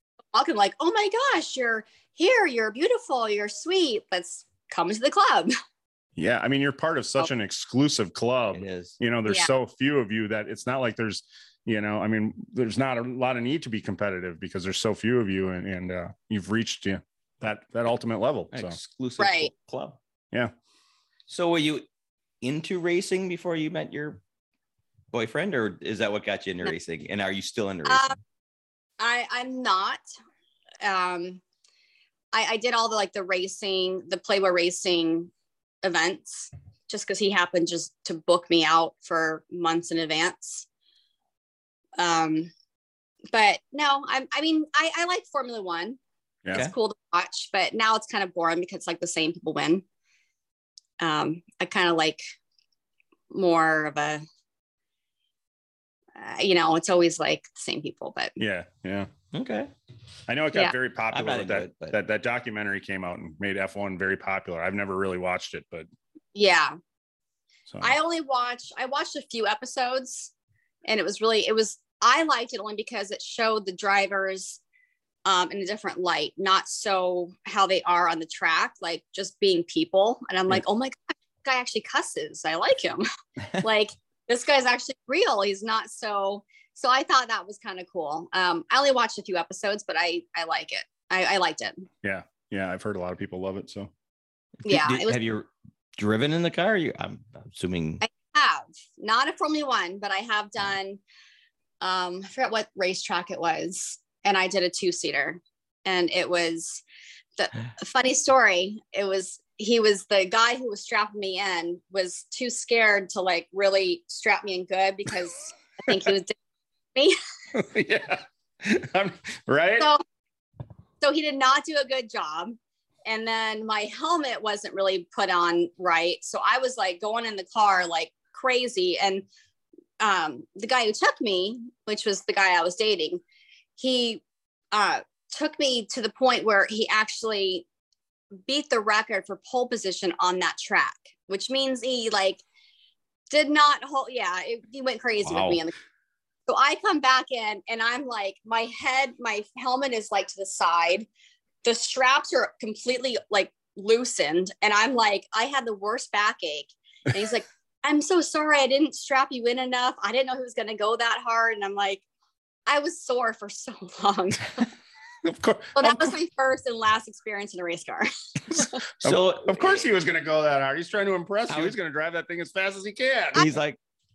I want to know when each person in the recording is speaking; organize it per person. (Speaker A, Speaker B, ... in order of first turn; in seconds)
Speaker A: 0.3-5.5, 19.2-19.5, 27.9-28.2, 29.0-30.0, 30.8-31.4, 32.3-35.3, 35.8-40.7, 42.0-42.5, 43.3-46.0, 46.6-49.8, 51.0-52.2, 53.3-54.2, 56.2-58.4, 66.3-66.8, 67.8-70.3, 70.9-74.6, 75.2-83.0, 83.6-91.9, 94.7-95.2, 98.0-101.0, 101.8-106.8, 107.4-116.3, 121.0-129.2, 130.0-133.2, 133.8-137.7, 138.5-142.4, 143.3-145.7, 146.5-151.1, 151.6-162.0, 162.7-164.7, 165.8-168.8
Speaker B: 6.2-18.8, 58.4-59.1, 60.3-65.9, 67.7-67.9, 92.0-93.9, 117.5-119.9, 145.3-145.6, 165.2-166.1, 169.0-173.5
Speaker C: 8.5-9.0, 18.5-20.0, 21.3-21.9, 22.4-24.2, 25.1-28.1, 59.3-59.7, 61.1-62.0, 94.6-98.0, 169.0-169.8, 171.5-171.8, 173.3-173.8